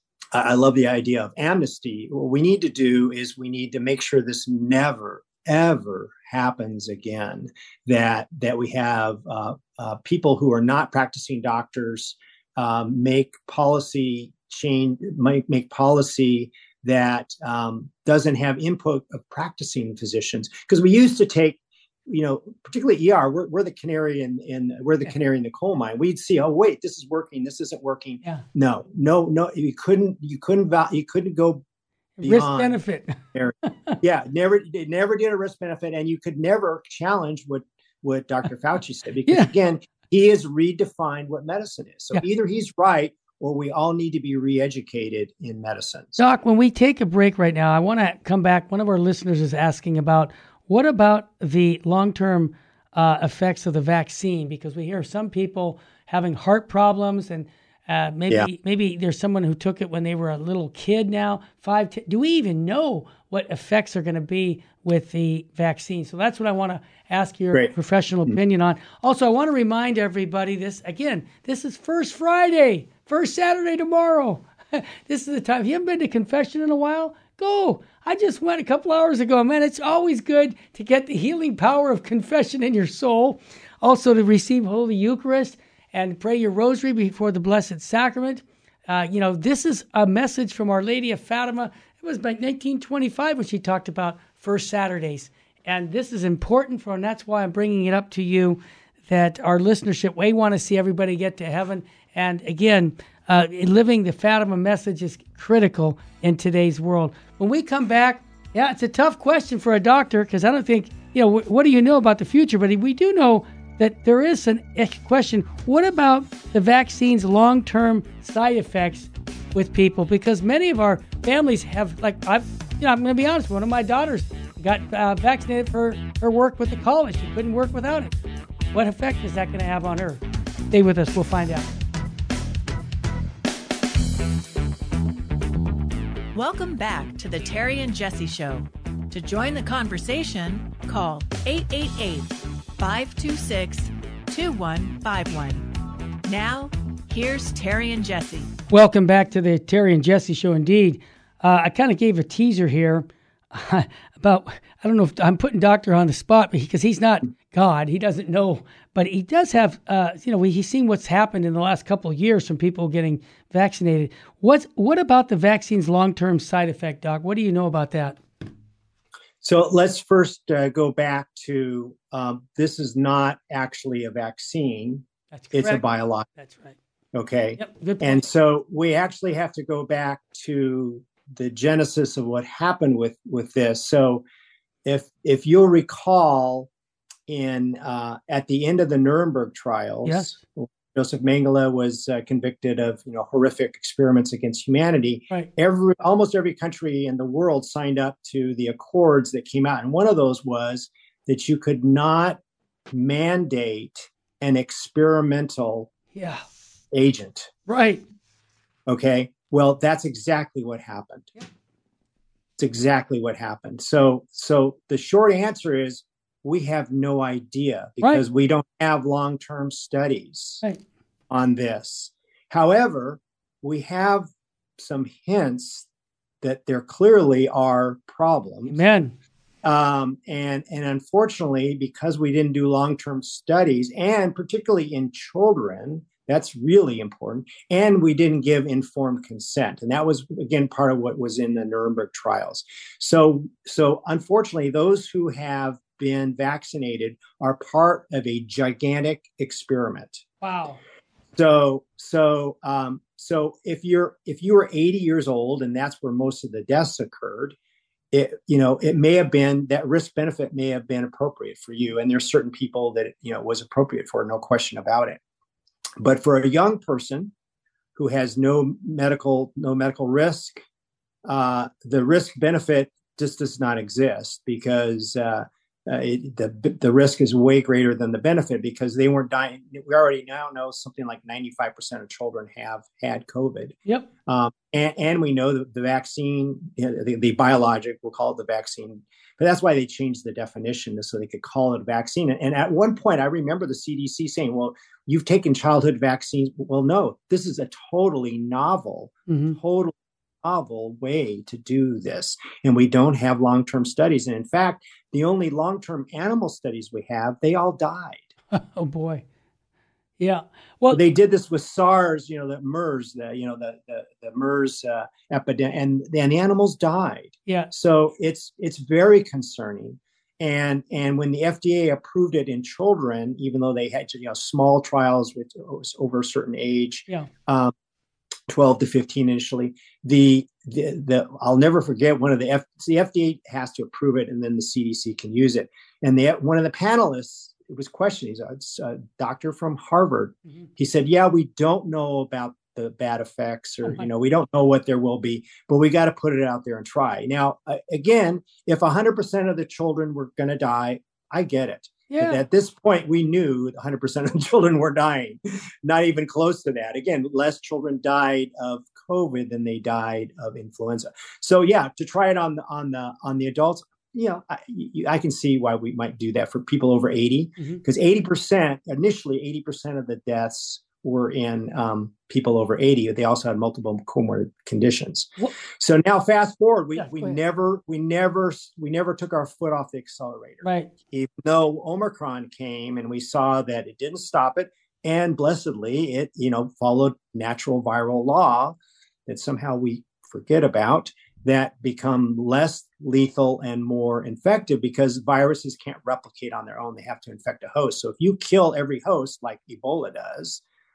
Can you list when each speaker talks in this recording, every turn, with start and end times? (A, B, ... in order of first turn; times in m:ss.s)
0:00.3-0:31.6 A
0:32.2-0:33.2 B
0:32.2-0:32.8 A
0:33.3-0:46.2 A
0:39.3-0:39.5 B
0:46.2-2:08.2 B
2:08.7-2:11.7 B
2:16.3-2:25.7 C
2:26.2-2:28.5 C
2:28.7-2:48.2 B
2:49.4-2:56.3 A
2:55.3-2:56.8 B
2:57.1-3:04.2 A
2:57.6-2:58.2 B
3:04.8-3:06.7 A
3:07.3-3:22.4 A
3:10.0-3:10.4 B
3:22.9-3:25.9 A
3:26.1-3:26.4 B
3:26.9-3:27.5 A
3:27.7-3:28.0 B
3:28.9-3:31.3 A
3:32.6-3:40.6 A
3:41.3-3:45.9 A
3:46.4-3:48.8 A
3:48.7-3:49.1 B
3:49.6-4:10.2 A
4:10.4-4:10.8 B
4:11.3-4:17.5 A
4:18.1-4:25.2 A
4:26.0-4:27.3 A
4:28.0-4:30.6 A
4:31.2-5:08.3 A
4:59.3-4:59.6 B
5:08.5-5:09.2 B
5:10.2-5:11.0 B
5:10.9-5:27.7 A
5:28.5-6:40.6 A
5:52.1-5:52.4 B
6:17.0-6:17.3 B
6:20.6-6:20.9 B